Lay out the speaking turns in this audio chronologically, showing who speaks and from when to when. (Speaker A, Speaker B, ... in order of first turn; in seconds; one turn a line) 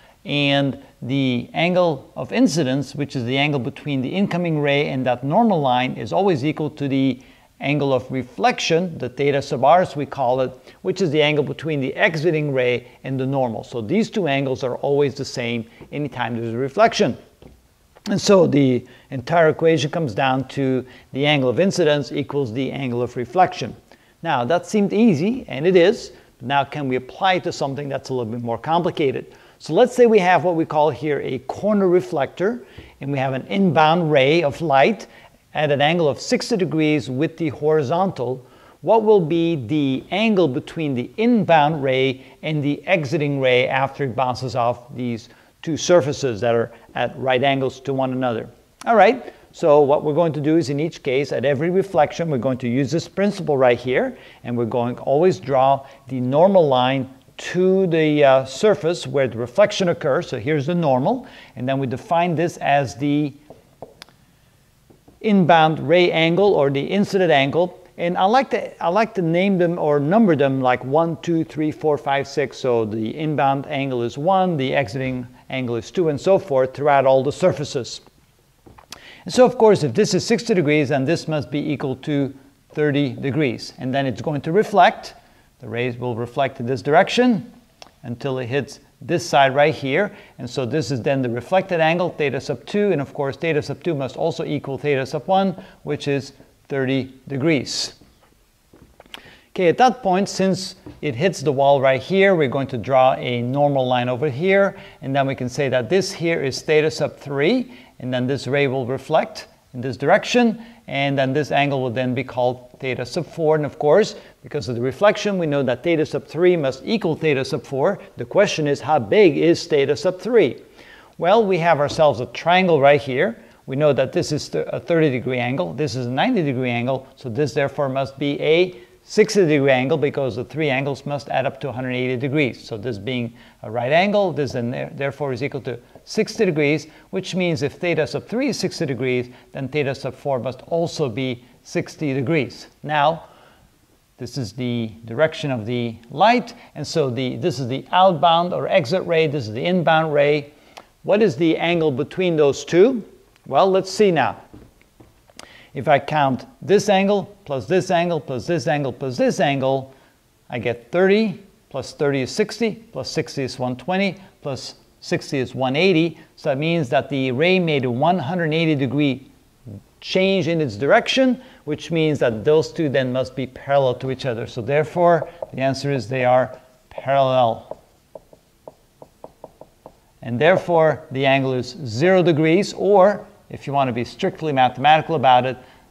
Speaker A: 0.2-17.2
Speaker A: 18.1-63.4
Speaker A: 65.2-78.0
Speaker A: 79.2-87.5
Speaker A: 88.0-98.0
Speaker A: 99.5-120.6
Speaker A: 121.2-143.3
Speaker A: 144.2-150.5
Speaker A: 151.0-154.4
Speaker A: 155.7-159.9
Speaker A: 160.5-169.3
Speaker A: 170.0-177.8
Speaker A: 180.2-185.6